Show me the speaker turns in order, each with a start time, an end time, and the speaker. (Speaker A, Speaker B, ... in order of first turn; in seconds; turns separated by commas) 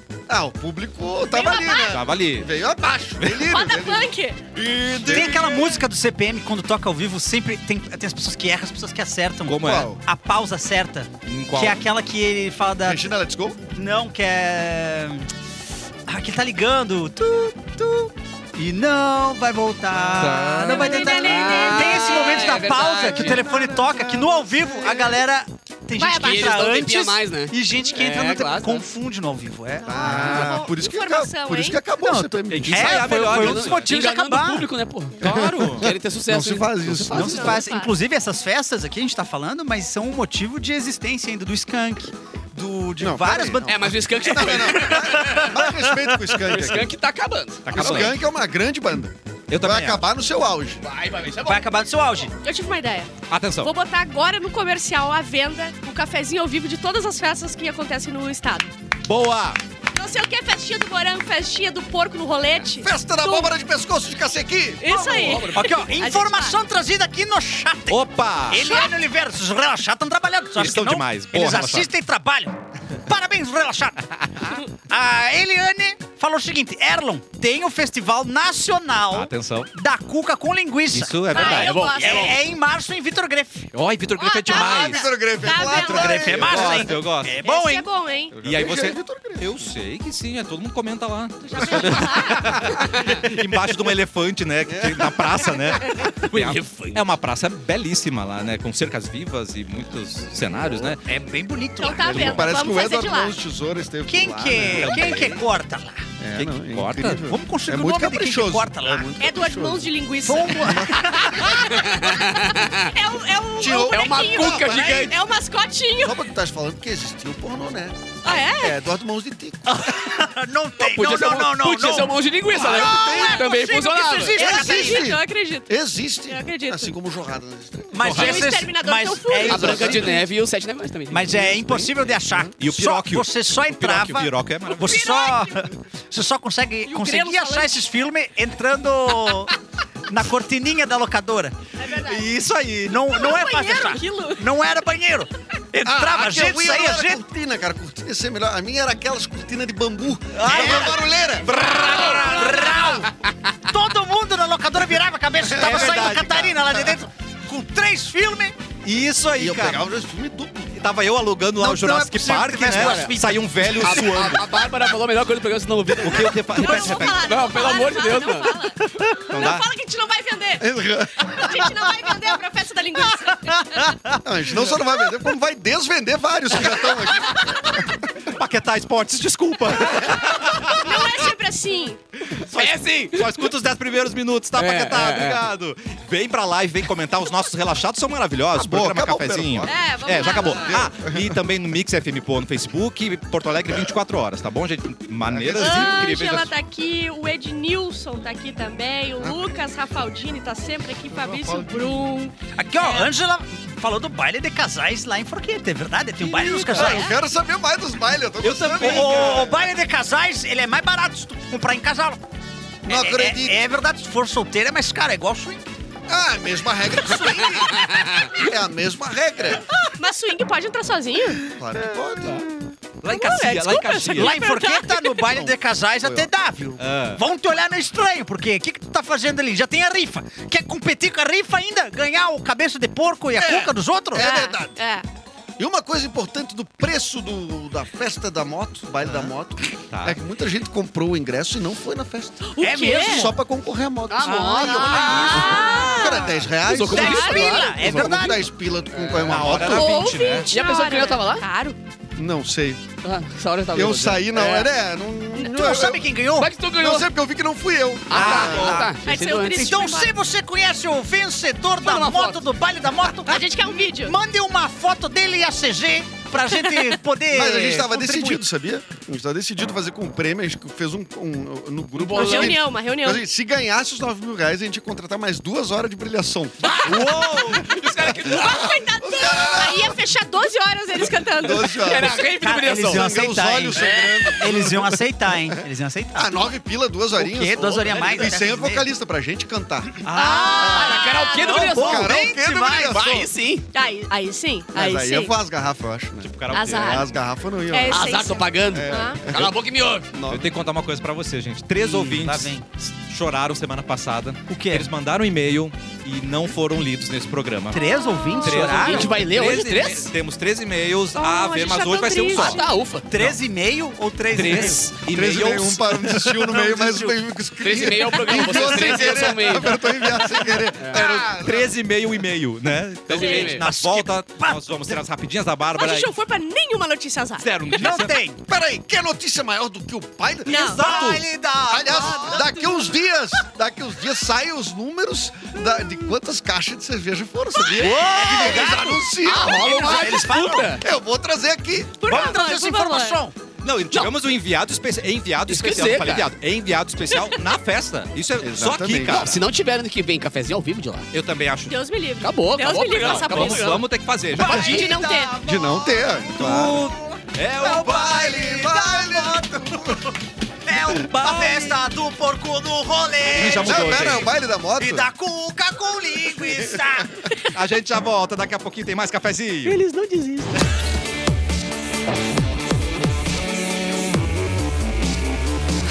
Speaker A: 0.3-5.8, Speaker B: 1.3-2.0, Speaker C: 1.9-2.5, Speaker B: 3.4-4.4, Speaker C: 4.9-5.5, Speaker D: 5.0-13.1, Speaker C: 9.4-9.9, Speaker A: 9.6-10.0, Speaker C: 11.3-11.8, Speaker A: 12.8-13.6, Speaker D: 13.8-15.3, Speaker D: 16.1-30.5, Speaker C: 20.0-21.0, Speaker B: 20.6-22.6, Speaker E: 20.9-23.5, Speaker A: 23.1-25.1, Speaker E: 26.0-28.9, Speaker B: 26.0-26.6, Speaker B: 29.8-31.8, Speaker A: 29.9-33.2, Speaker C: 30.1-30.6, Speaker D: 32.0-34.7, Speaker C: 32.5-33.9, Speaker E: 33.2-37.6, Speaker C: 35.2-35.9, Speaker A: 35.2-37.6, Speaker D: 37.1-46.0, Speaker B: 37.2-37.9, Speaker A: 43.0-46.9, Speaker E: 43.7-45.6, Speaker E: 46.4-48.2, Speaker C: 47.6-48.2, Speaker A: 47.7-50.8, Speaker C: 49.5-50.1, Speaker E: 50.8-51.7, Speaker D: 51.4-52.3, Speaker B: 52.4-58.7, Speaker C: 53.3-53.7, Speaker C: 59.1-59.6, Speaker B: 59.9-63.5, Speaker A: 62.8-64.8, Speaker B: 64.8-66.6, Speaker E: 64.8-65.8, Speaker D: 65.5-74.0, Speaker C: 67.9-68.6, Speaker B: 68.6-68.9, Speaker C: 70.6-71.9, Speaker D: 74.9-83.7, Speaker C: 79.1-79.7, Speaker C: 80.9-81.9, Speaker B: 81.3-82.4, Speaker E: 81.3-82.4, Speaker C: 83.7-85.1, Speaker B: 84.2-86.5, Speaker A: 84.5-86.9, Speaker D: 85.5-87.9, Speaker C: 86.3-87.4, Speaker B: 87.4-88.4, Speaker A: 88.3-89.7, Speaker C: 88.4-101.0, Speaker B: 91.4-92.7, Speaker A: 91.6-92.4, Speaker A: 94.7-95.5, Speaker E: 96.0-97.0, Speaker D: 101.0-102.4, Speaker B: 101.8-103.4, Speaker C: 102.0-102.5, Speaker A: 102.1-105.3, Speaker D: 104.1-106.0, Speaker C: 104.7-105.4, Speaker A: 106.2-109.9, Speaker C: 106.3-107.2, Speaker D: 107.3-109.1, Speaker B: 109.2-116.2, Speaker D: 110.2-111.5, Speaker A: 110.6-111.6, Speaker E: 111.7-112.9, Speaker A: 113.6-115.1, Speaker E: 113.9-115.2, Speaker A: 116.0-119.7, Speaker B: 118.2-118.8, Speaker D: 119.6-123.1, Speaker E: 120.8-124.4, Speaker A: 122.6-123.5, Speaker B: 122.6-125.7, Speaker D: 124.1-125.1, Speaker A: 124.4-128.4, Speaker B: 126.3-126.9, Speaker D: 127.9-130.2, Speaker E: 128.1-128.4, Speaker B: 128.1-130.1, Speaker E: 129.4-131.9, Speaker A: 129.6-130.1, Speaker D: 131.1-139.5, Speaker A: 132.2-132.5, Speaker C: 132.6-135.1, Speaker B: 134.8-135.5, Speaker B: 136.9-137.8, Speaker D: 140.1-141.6, Speaker B: 141.8-142.3, Speaker C: 142.0-143.0, Speaker D: 142.8-147.2, Speaker B: 143.1-144.4, Speaker A: 145.8-151.5, Speaker D: 150.3-158.6, Speaker C: 150.5-150.9, Speaker C: 151.4-153.0, Speaker A: 155.4-157.0, Speaker C: 155.6-156.6, Speaker C: 158.8-159.9, Speaker A: 159.4-160.7, Speaker C: 160.8-164.6, Speaker D: 161.6-164.0, Speaker E: 162.7-163.1, Speaker E: 163.8-168.5, Speaker C: 166.0-167.3, Speaker B: 166.5-173.9, Speaker C: 169.3-169.7, Speaker A: 170.6-171.9, Speaker D: 173.7-174.2, Speaker A: 174.2-178.0, Speaker C: 178.2-181.3, Speaker B: 180.1-182.0, Speaker C: 182.2-196.5, Speaker E: 182.5-183.5, Speaker E: 184.6-185.4, Speaker A: 188.5-191.4, Speaker B: 189.7-190.7, Speaker A: 195.3-196.1, Speaker B: 195.6-203.1, Speaker A: 199.2-199.6, Speaker A: 201.1-202.1, Speaker D: 202.6-207.1, Speaker A: 206.2-209.7, Speaker B: 206.5-207.2, Speaker C: 208.4-209.5, Speaker D: 208.4-212.2, Speaker A: 212.8-213.6, Speaker D: 212.9-215.6, Speaker A: 216.1-219.7, Speaker E: 217.9-218.3, Speaker B: 219.7-221.8, Speaker A: 221.4-222.5, Speaker C: 223.0-224.3, Speaker B: 223.1-225.3, Speaker D: 224.1-234.3, Speaker A: 225.3-226.3, Speaker C: 226.8-227.2, Speaker A: 233.4-234.8, Speaker B: 234.1-235.1, Speaker A: 235.6-250.0, Speaker C: 239.9-240.2, Speaker B: 242.4-243.3, Speaker D: 242.6-243.3, Speaker E: 244.1-245.9, Speaker B: 244.6-247.7, Speaker D: 244.7-248.5, Speaker E: 246.6-248.3, Speaker E: 248.9-251.4, Speaker C: 249.3-250.5, Speaker B: 249.6-251.8, Speaker A: 252.2-252.8, Speaker E: 253.0-254.7, Speaker A: 253.7-256.1, Speaker D: 255.4-256.5, Speaker E: 256.4-257.1, Speaker A: 256.8-258.9, Speaker E: 258.1-259.7, Speaker C: 258.1-258.8, Speaker D: 258.1-258.9, Speaker B: 259.0-260.1, Speaker D: 259.5-268.4, Speaker E: 261.8-262.5, Speaker B: 263.2-264.1, Speaker B: 266.6-266.9, Speaker A: 267.3-280.0, Speaker E: 271.9-272.6, Speaker B: 272.1-273.2, Speaker E: 276.6-278.9, Speaker C: 276.9-277.7, Speaker B: 278.3-282.0, Speaker A: 281.3-285.6, Speaker E: 281.7-283.1, Speaker D: 282.1-286.6, Speaker E: 283.8-284.4, Speaker A: 286.1-293.3, Speaker D: 287.1-288.9, Speaker E: 287.6-288.4, Speaker D: 290.0-293.2, Speaker B: 290.1-291.7, Speaker E: 290.7-292.2, Speaker E: 292.8-293.6, Speaker B: 293.7-295.3, Speaker A: 294.7-300.5, Speaker C: 296.2-297.0, Speaker B: 296.5-297.1, Speaker B: 297.7-299.2, Speaker E: 297.9-300.1, Speaker C: 300.3-307.8, Speaker D: 301.8-302.6, Speaker D: 304.5-304.9, Speaker D: 307.7-309.2, Speaker B: 307.8-309.1, Speaker C: 308.4-313.4, Speaker E: 308.8-310.1, Speaker B: 311.2-312.6, Speaker E: 312.3-313.1, Speaker D: 313.1-314.9, Speaker C: 314.3-316.6, Speaker A: 315.1-321.8, Speaker D: 316.4-317.2, Speaker E: 317.6-319.9, Speaker D: 318.4-319.4, Speaker E: 320.8-321.1, Speaker C: 321.0-326.1, Speaker E: 323.1-323.6, Speaker B: 323.1-323.5, Speaker D: 323.3-324.9, Speaker B: 325.8-327.8, Speaker C: 327.4-328.1, Speaker D: 327.7-328.4, Speaker A: 328.5-342.1, Speaker B: 330.4-331.1, Speaker D: 330.4-332.5, Speaker B: 331.9-333.0, Speaker B: 335.6-336.1, Speaker D: 337.8-340.8, Speaker C: 338.1-338.8, Speaker E: 339.2-340.8, Speaker B: 342.0-343.2, Speaker D: 342.1-343.4, Speaker C: 343.6-349.4, Speaker E: 345.5-346.3, Speaker B: 347.1-347.4, Speaker A: 348.4-349.3, Speaker E: 349.0-351.1, Speaker C: 351.1-351.8, Speaker B: 351.7-353.8, Speaker E: 352.2-354.9, Speaker C: 353.0-355.7, Speaker B: 354.4-355.4, Speaker D: 354.4-356.9, Speaker A: 355.4-356.9, Speaker C: 356.2-358.5, Speaker D: 357.6-360.1, Speaker A: 357.7-360.1, Speaker D: 360.6-364.2, Speaker C: 361.1-361.8, Speaker C: 363.3-364.3, Speaker A: 363.4-365.1, Speaker D: 364.8-367.1, Speaker C: 367.5-369.8, Speaker B: 369.7-370.5